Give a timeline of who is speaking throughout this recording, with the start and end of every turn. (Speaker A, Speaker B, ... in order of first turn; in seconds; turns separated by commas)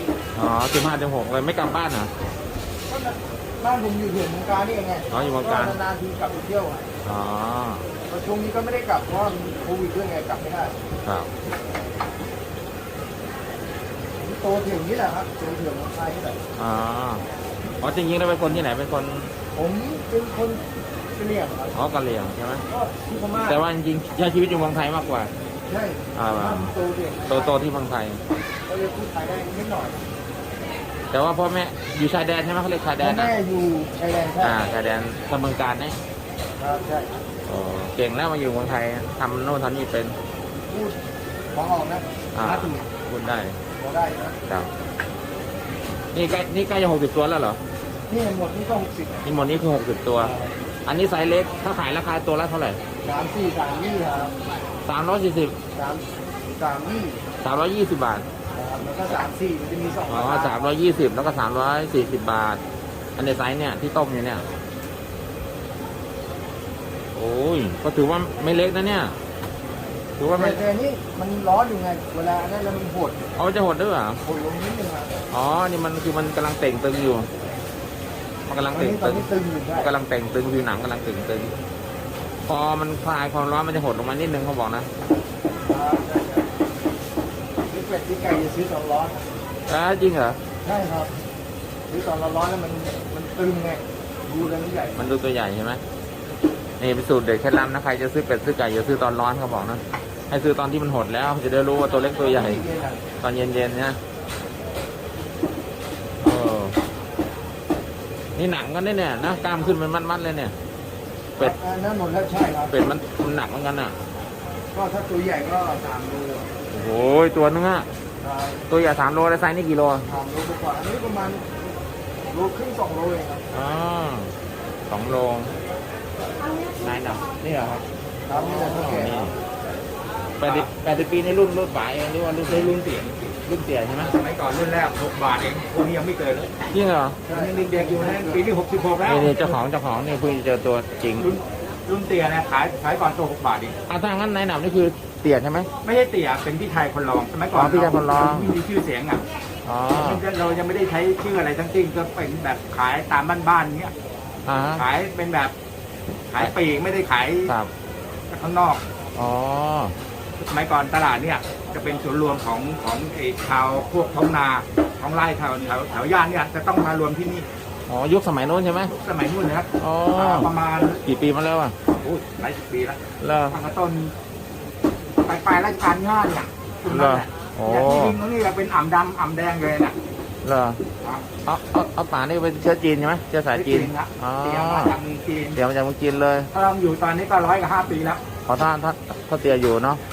Speaker A: 0.3-2.1, Speaker B: 2.9-6.9, Speaker A: 5.1-5.8, Speaker A: 7.0-7.9, Speaker B: 8.1-10.8, Speaker A: 11.0-11.3, Speaker B: 14.2-16.4, Speaker A: 16.6-17.2, Speaker A: 17.8-19.3, Speaker B: 19.5-20.6, Speaker B: 21.1-21.7, Speaker A: 21.7-22.7, Speaker B: 22.7-23.6, Speaker A: 23.4-25.3, Speaker B: 25.7-27.6, Speaker A: 26.1-26.7, Speaker A: 27.3-28.2, Speaker B: 28.7-30.0, Speaker A: 31.1-33.3, Speaker B: 33.0-34.6, Speaker A: 34.4-36.0, Speaker B: 36.6-37.1, Speaker A: 37.5-40.2, Speaker B: 40.7-41.0, Speaker B: 41.5-42.8, Speaker A: 42.4-43.6, Speaker B: 43.8-44.4, Speaker A: 44.5-44.7, Speaker A: 46.1-47.6, Speaker B: 48.1-49.2, Speaker A: 49.2-50.4, Speaker A: 50.9-52.8, Speaker B: 53.0-54.3, Speaker A: 54.9-55.6, Speaker B: 55.7-57.2, Speaker A: 57.4-58.3, Speaker B: 58.5-60.7, Speaker A: 60.1-62.6, Speaker A: 63.2-64.5, Speaker A: 67.1-69.2, Speaker A: 70.2-70.6, Speaker B: 70.3-73.2, Speaker A: 73.3-74.2, Speaker B: 74.2-75.2, Speaker A: 75.3-77.3, Speaker A: 78.5-81.6, Speaker B: 78.7-79.9, Speaker A: 82.5-84.9, Speaker B: 85.7-86.5, Speaker B: 87.7-89.2, Speaker A: 89.7-90.4, Speaker B: 90.6-91.1, Speaker B: 91.9-95.0, Speaker A: 95.0-95.8, Speaker A: 96.8-102.6, Speaker B: 102.2-103.0, Speaker A: 103.2-104.0, Speaker A: 106.2-106.8, Speaker A: 108.3-110.5, Speaker B: 111.4-112.8, Speaker A: 112.7-114.0, Speaker B: 114.7-116.5, Speaker A: 116.7-117.9, Speaker B: 118.2-118.6, Speaker A: 118.7-120.1, Speaker B: 120.1-121.5, Speaker B: 122.3-123.4, Speaker A: 123.5-124.3, Speaker A: 124.9-125.5, Speaker A: 126.8-129.4, Speaker B: 128.3-129.3, Speaker A: 130.4-132.7, Speaker C: 130.4-130.7, Speaker C: 132.4-133.4, Speaker A: 133.4-134.1, Speaker C: 134.0-136.5, Speaker A: 136.7-137.2, Speaker B: 137.3-138.4, Speaker C: 137.3-139.6, Speaker A: 139.0-141.3, Speaker C: 141.2-143.7, Speaker A: 143.9-145.7, Speaker C: 145.8-149.2, Speaker A: 147.5-148.6, Speaker A: 149.6-150.2, Speaker C: 149.9-153.9, Speaker A: 154.5-154.9, Speaker C: 154.8-155.5, Speaker C: 156.3-157.5, Speaker A: 157.5-157.7, Speaker C: 158.3-158.8, Speaker A: 159.1-159.9, Speaker C: 160.4-167.5, Speaker A: 167.9-168.9, Speaker C: 168.9-171.0, Speaker A: 169.8-170.5, Speaker A: 171.0-172.2, Speaker C: 172.1-174.1, Speaker A: 173.2-173.6, Speaker C: 175.2-180.0, Speaker A: 176.9-178.2, Speaker A: 180.4-180.8, Speaker C: 181.0-181.3, Speaker A: 181.4-185.0, Speaker C: 183.5-185.6, Speaker A: 185.5-186.5, Speaker C: 186.5-188.2, Speaker A: 188.5-190.0